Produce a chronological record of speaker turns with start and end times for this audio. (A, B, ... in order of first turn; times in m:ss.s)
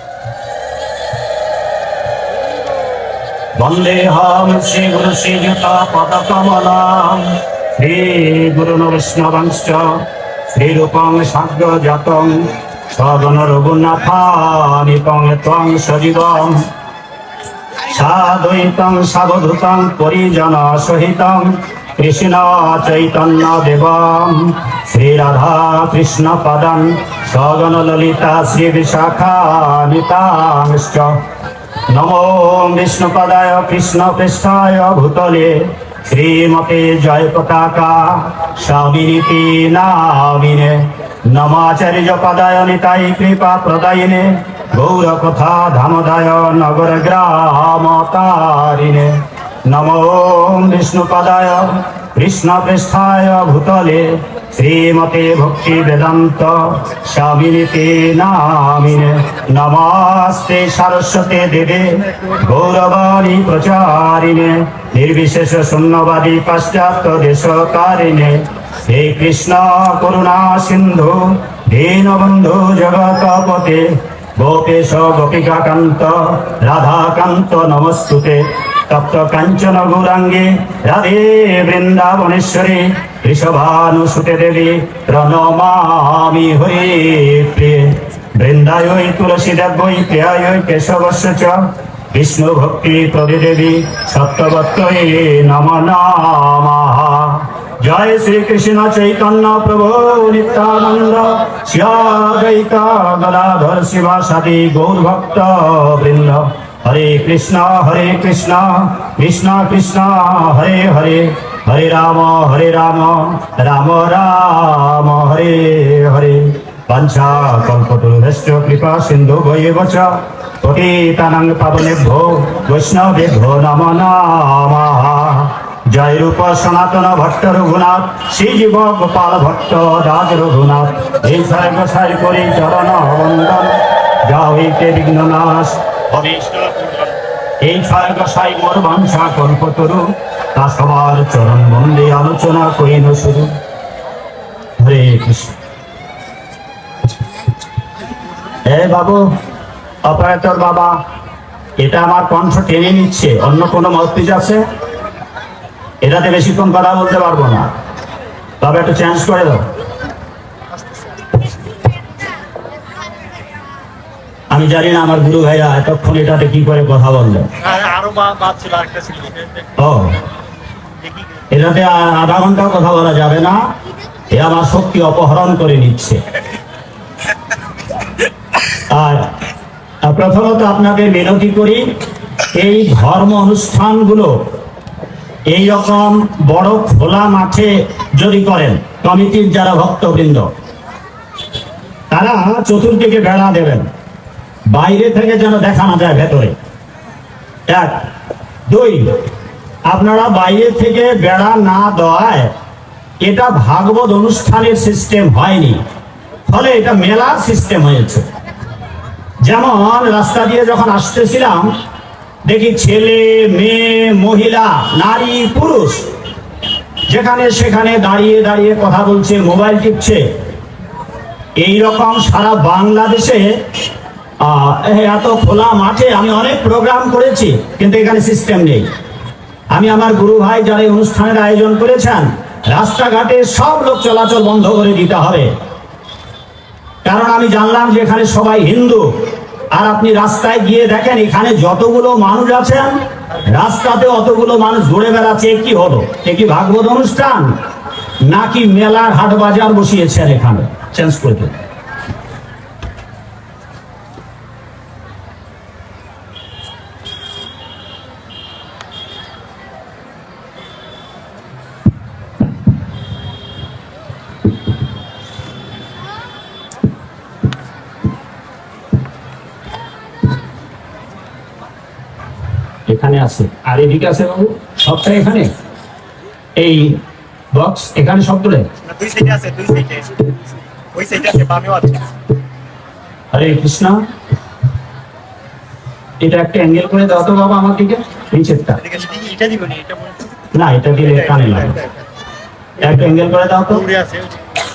0:03.6-0:16.7 A
0:17.9-0:31.2 A
0:31.9-2:17.0 A
2:17.6-2:23.6 A
2:24.8-2:25.5 A
2:28.6-2:29.3 A
2:30.0-2:31.0 A
2:31.8-2:34.6 A
2:36.0-2:37.7 A
2:38.6-2:39.6 A
2:44.5-2:47.5 A
2:47.6-2:49.7 B
2:49.8-2:50.2 A
2:51.1-2:51.4 B
2:51.5-2:53.6 A
2:54.3-2:56.2 A
2:58.9-2:59.3 A
3:00.0-3:01.9 A
3:02.5-3:04.4 A
3:05.5-3:10.5 A
3:12.1-3:13.9 A
3:14.7-3:16.6 A
3:17.7-3:18.0 A
3:18.7-3:19.2 A
3:19.9-3:22.5 A
3:23.2-3:25.8 A
3:26.5-3:28.2 A
3:29.4-3:31.7 A
3:32.4-3:36.1 A
3:37.1-3:40.2 A
3:41.6-3:43.5 A
3:44.4-3:48.9 A
3:49.7-3:55.5 A
3:57.0-3:59.1 A
3:59.7-4:07.6 A
4:08.3-4:11.6 A
4:32.9-4:35.5 A
4:36.6-4:37.0 A
4:37.5-4:38.7 A
4:38.8-4:40.3 B
4:40.9-4:42.1 B
4:43.3-4:44.0 A
4:46.2-4:48.8 A
4:48.8-4:50.2 B
4:50.5-4:51.8 A
4:51.4-4:51.7 B
4:52.8-4:53.9 A
4:53.9-4:54.3 B